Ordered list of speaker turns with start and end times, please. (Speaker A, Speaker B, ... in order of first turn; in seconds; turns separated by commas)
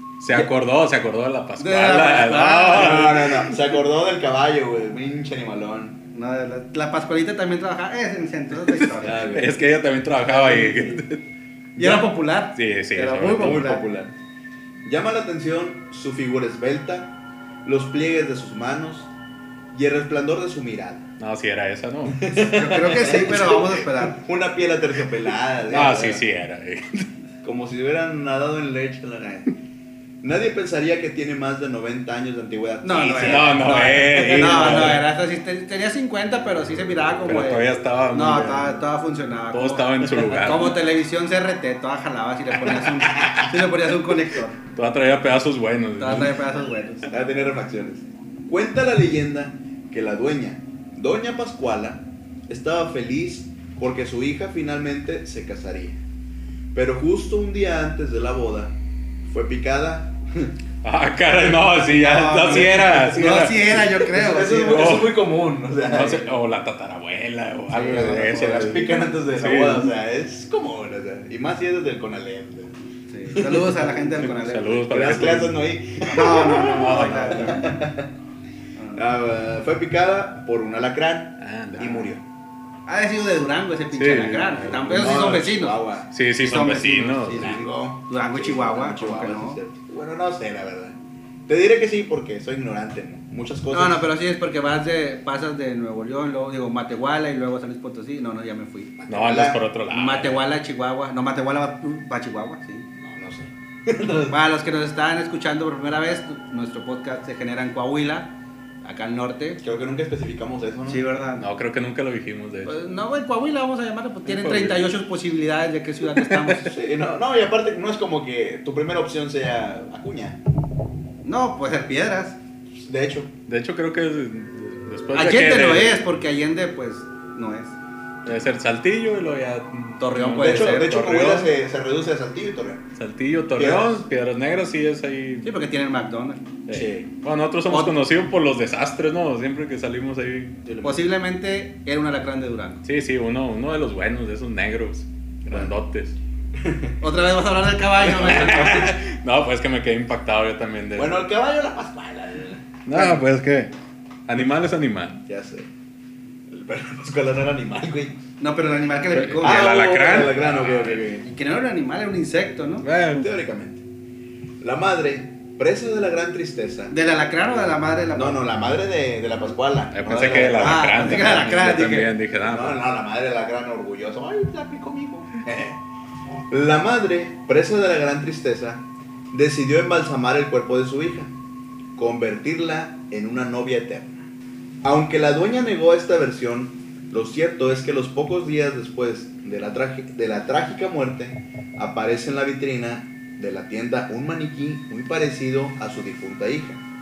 Speaker A: 0.2-3.5, Speaker B: 1.6-3.1, Speaker C: 2.7-6.0, Speaker B: 6.1-9.4, Speaker A: 8.7-11.2, Speaker C: 9.0-9.6, Speaker B: 10.2-11.0, Speaker C: 11.8-12.1, Speaker B: 11.8-13.8, Speaker A: 12.5-13.7, Speaker C: 13.3-14.1, Speaker C: 14.8-17.1, Speaker C: 17.6-19.1, Speaker C: 19.7-21.1, Speaker A: 21.2-22.2, Speaker C: 22.1-26.2, Speaker B: 22.5-24.2, Speaker A: 25.7-27.1, Speaker C: 27.4-29.5, Speaker C: 30.2-35.0, Speaker B: 32.8-44.6, Speaker A: 33.2-35.0, Speaker A: 37.3-38.8, Speaker A: 39.5-40.8, Speaker C: 43.1-43.5, Speaker A: 44.8-46.4, Speaker B: 46.0-47.1, Speaker C: 47.1-56.0, Speaker C: 56.7-60.5, Speaker A: 60.8-63.8, Speaker B: 61.9-65.0, Speaker C: 62.5-62.9, Speaker C: 63.4-66.3, Speaker A: 64.7-65.2, Speaker A: 65.8-69.9, Speaker C: 67.7-72.7, Speaker B: 67.8-68.3, Speaker B: 73.1-75.0, Speaker C: 73.3-73.6, Speaker A: 74.2-75.5, Speaker C: 74.9-78.1, Speaker B: 76.1-77.8, Speaker A: 76.3-77.6, Speaker B: 78.8-79.0, Speaker C: 79.0-82.2, Speaker A: 81.4-82.2, Speaker B: 82.9-85.8, Speaker A: 83.9-85.3, Speaker C: 84.9-86.1, Speaker A: 86.1-87.6, Speaker B: 86.4-89.6, Speaker C: 87.3-91.0, Speaker C: 91.5-94.0, Speaker B: 93.7-98.9, Speaker C: 99.0-99.6, Speaker A: 99.1-100.4, Speaker B: 99.9-102.9, Speaker C: 103.0-104.4, Speaker B: 104.3-108.3, Speaker B: 108.8-109.6, Speaker C: 109.6-111.1, Speaker B: 110.9-111.5, Speaker A: 111.4-112.7, Speaker B: 112.7-116.7, Speaker A: 114.2-114.9, Speaker A: 116.2-116.5, Speaker C: 116.7-120.4, Speaker B: 121.2-122.4, Speaker C: 122.8-123.3, Speaker A: 123.5-126.0, Speaker B: 125.1-127.8, Speaker A: 128.2-131.5, Speaker B: 130.0-131.0, Speaker C: 130.4-132.9, Speaker A: 133.0-135.5, Speaker C: 133.5-134.1, Speaker B: 135.4-136.4, Speaker A: 136.7-140.6, Speaker C: 136.7-137.1, Speaker B: 137.7-137.9, Speaker C: 140.7-141.1, Speaker B: 140.8-142.8, Speaker A: 142.8-146.2, Speaker C: 146.6-147.0, Speaker B: 147.0-148.9, Speaker C: 148.0-148.9, Speaker A: 148.0-151.2, Speaker C: 151.0-153.2, Speaker A: 152.9-153.7, Speaker A: 154.3-155.2, Speaker C: 155.3-155.7, Speaker C: 156.5-158.2, Speaker B: 158.4-159.7, Speaker A: 159.1-161.1, Speaker C: 159.4-161.2, Speaker B: 161.2-162.9, Speaker A: 162.8-163.3, Speaker C: 163.1-163.8, Speaker C: 164.6-166.9, Speaker B: 166.9-168.4, Speaker C: 168.1-171.4, Speaker A: 169.9-172.8, Speaker B: 170.6-172.1, Speaker C: 172.5-175.8, Speaker C: 176.5-181.3, Speaker C: 182.0-184.3, Speaker C: 184.8-196.8